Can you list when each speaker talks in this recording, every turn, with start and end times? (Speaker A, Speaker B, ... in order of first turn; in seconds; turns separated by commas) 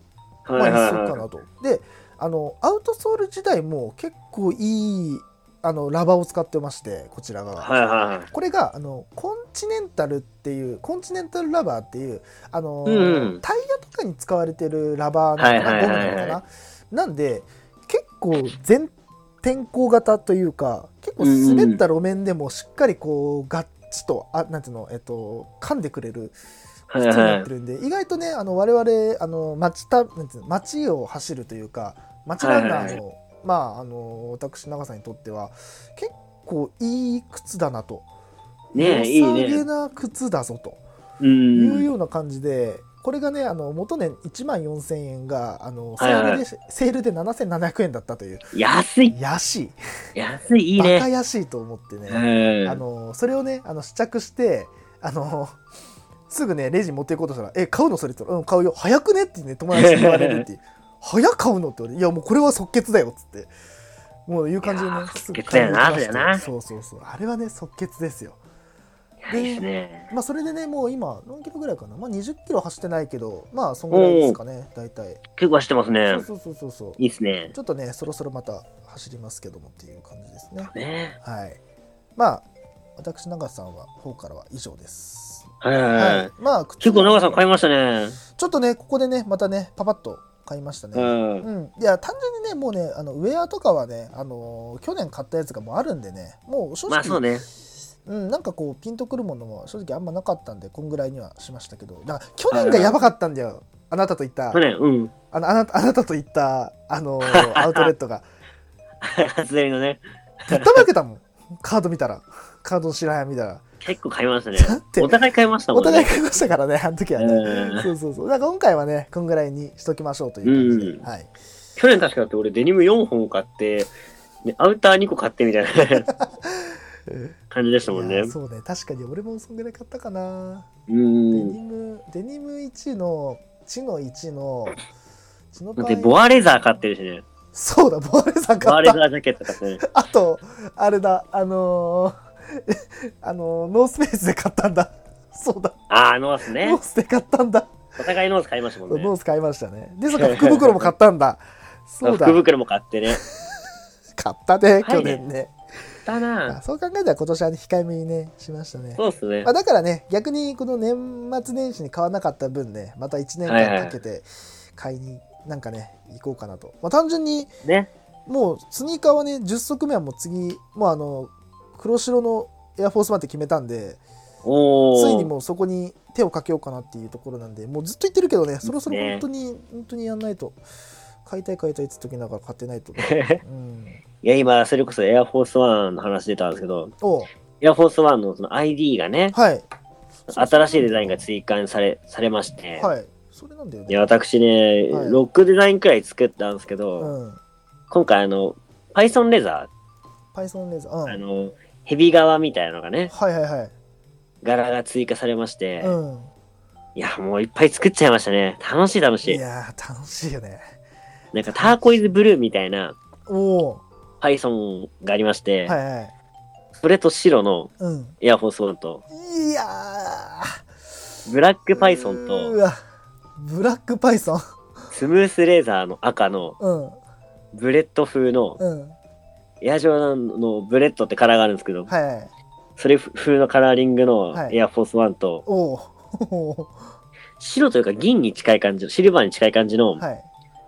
Speaker A: 0.5-1.2, Speaker B: 0.6-7.7, Speaker A: 7.6-8.3, Speaker B: 8.3-26.4, Speaker A: 12.9-13.4, Speaker A: 15.4-16.4, Speaker A: 21.2-21.8, Speaker A: 26.9-27.5, Speaker B: 27.0-38.1, Speaker A: 32.4-33.0, Speaker B: 38.7-40.8, Speaker A: 38.8-39.6, Speaker A: 41.2-41.9, Speaker B: 41.5-48.5, Speaker A: 46.0-46.4, Speaker A: 48.5-49.2, Speaker B: 49.1-49.8, Speaker A: 50.2-51.1, Speaker B: 50.8-55.6, Speaker A: 52.1-52.8, Speaker B: 56.3-63.5, Speaker A: 59.7-60.5, Speaker B: 64.3-68.4, Speaker A: 64.6-66.5, Speaker A: 69.2-70.1, Speaker B: 69.3-75.2, Speaker A: 73.9-74.4, Speaker A: 75.4-76.3, Speaker B: 76.1-77.0, Speaker A: 77.0-77.5, Speaker B: 77.5-81.6, Speaker A: 80.7-81.2, Speaker B: 82.2-82.5, Speaker B: 83.0-87.4, Speaker A: 85.6-88.2, Speaker B: 88.4-97.2, Speaker A: 90.9-91.5, Speaker A: 96.9-97.5, Speaker B: 98.1-104.6, Speaker A: 102.5-103.0, Speaker A: 104.5-105.1, Speaker B: 105.3-108.3, Speaker A: 107.2-107.9, Speaker A: 109.0-110.8, Speaker B: 110.5-113.6, Speaker A: 113.8-116.5, Speaker B: 114.6-115.2, Speaker B: 115.7-121.3, Speaker A: 117.2-117.9, Speaker A: 120.4-121.0, Speaker A: 121.8-123.9, Speaker A: 124.5-126.1, Speaker B: 126.1-127.3, Speaker A: 127.5-128.3, Speaker B: 127.9-130.7, Speaker A: 130.9-131.6, Speaker B: 131.3-134.8, Speaker B: 135.5-136.8, Speaker A: 135.8-137.2, Speaker B: 137.5-139.0, Speaker A: 138.6-139.8, Speaker B: 139.8-145.8, Speaker A: 145.9-146.8, Speaker B: 146.6-147.7, Speaker A: 148.0-149.1, Speaker B: 148.9-152.4, Speaker A: 150.1-150.9, Speaker A: 152.0-153.2, Speaker B: 153.1-153.6, Speaker B: 154.2-155.5, Speaker A: 154.8-155.2, Speaker A: 156.1-156.6, Speaker B: 156.5-167.5, Speaker A: 159.0-159.5, Speaker A: 163.4-164.0, Speaker B: 168.3-174.0, Speaker A: 174.4-175.3, Speaker B: 174.9-180.6, Speaker A: 178.7-179.2, Speaker B: 181.2-184.0, Speaker A: 183.0-183.4, Speaker A: 184.2-186.9, Speaker B: 187.0-187.3, Speaker A: 187.6-189.3, Speaker B: 189.3-189.7, Speaker B: 190.3-191.2, Speaker A: 190.3-192.9, Speaker B: 192.8-194.2, Speaker A: 193.9-197.1, Speaker B: 194.9-195.2, Speaker B: 197.0-197.4, Speaker A: 197.9-199.7, Speaker B: 200.3-201.2, Speaker A: 201.1-203.1, Speaker B: 203.1-203.7, Speaker A: 204.4-206.0, Speaker B: 205.8-206.3, Speaker A: 207.0-209.4, Speaker B: 209.2-210.6, Speaker A: 211.3-213.0, Speaker B: 211.5-211.8, Speaker B: 213.3-213.8, Speaker A: 214.2-215.8, Speaker B: 215.7-216.1, Speaker A: 216.8-219.0, Speaker B: 217.8-218.2, Speaker B: 219.1-220.6, Speaker A: 221.3-222.6, Speaker B: 221.8-222.8, Speaker B: 223.4-224.4, Speaker A: 224.9-226.6, Speaker B: 226.6-227.0, Speaker A: 227.5-228.6, Speaker B: 228.6-229.0, Speaker A: 229.6-231.9, Speaker B: 231.9-232.3, Speaker A: 232.8-235.4, Speaker B: 234.3-234.6, Speaker B: 235.5-236.9, Speaker A: 237.4-240.0, Speaker B: 240.0-240.3